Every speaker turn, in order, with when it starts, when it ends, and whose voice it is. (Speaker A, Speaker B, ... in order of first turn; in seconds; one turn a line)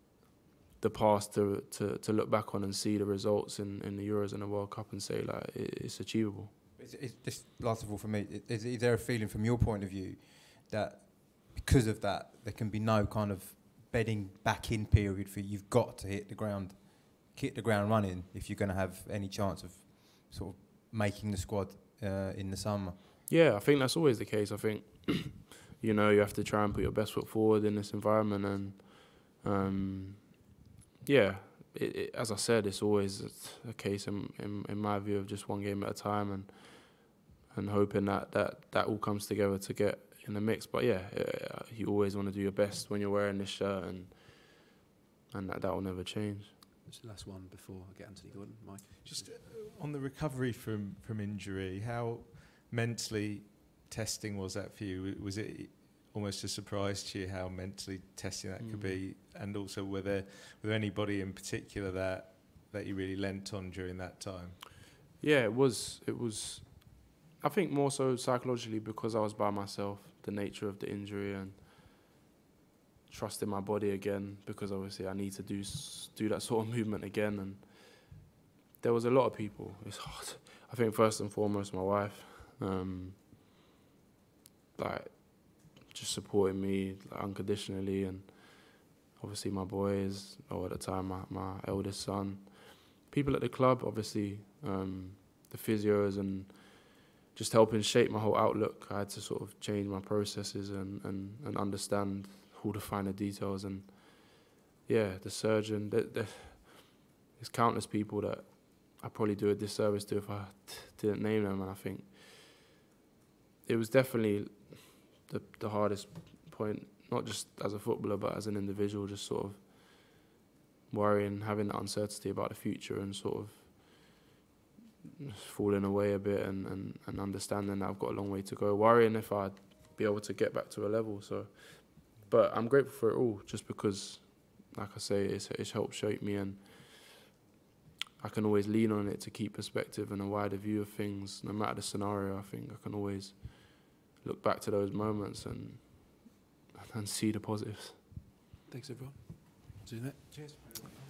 Speaker A: 0.8-6.5
Speaker B: 6.8-23.0
Speaker A: 23.3-30.4
Speaker A: 31.0-44.7
Speaker A: 45.3-46.5
Speaker C: 46.9-49.4
Speaker D: 49.0-64.6
Speaker A: 58.6-59.0
Speaker A: 65.2-71.9
Speaker A: 73.1-78.2
Speaker A: 78.8-83.5
Speaker A: 84.8-112.2
Speaker A: 113.7-120.2
Speaker A: 120.9-124.2
Speaker A: 125.2-137.1
Speaker A: 138.2-148.0
Speaker C: 148.7-150.8